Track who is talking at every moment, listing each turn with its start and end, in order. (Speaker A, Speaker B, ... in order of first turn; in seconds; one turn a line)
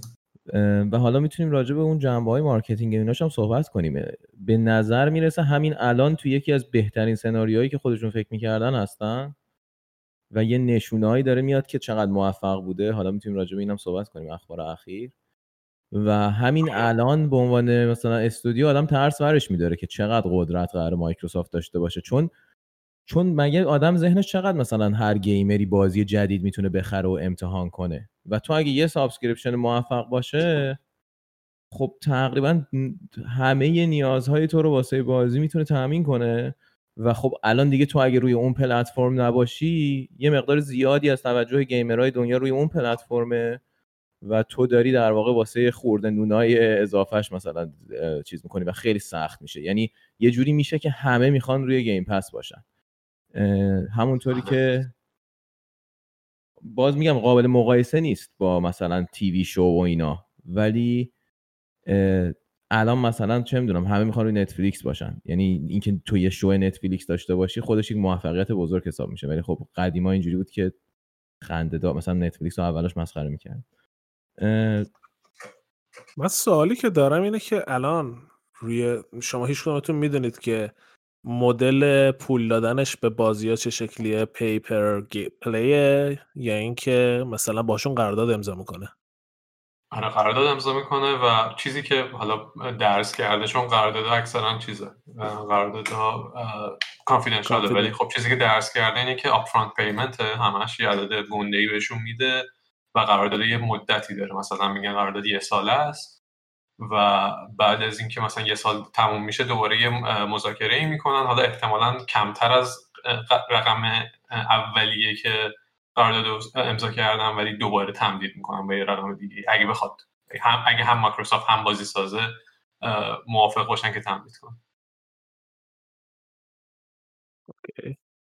Speaker A: 0.5-9.3
Speaker A: 10.3-15.1
Speaker A: 15.9-22.3
Speaker A: 23.1-30.8
Speaker A: 31.7-43.6
Speaker A: 44.2-52.6
Speaker A: 53.3-54.9
Speaker A: 56.6-61.1
Speaker A: 61.9-70.7
Speaker A: 71.4-73.6
Speaker A: 74.4-74.9
Speaker B: 76.2-80.7
Speaker B: 81.2-88.9
Speaker C: 89.9-106.2
Speaker B: 97.5-97.9
Speaker C: 106.8-124.6
Speaker B: 127.6-128.0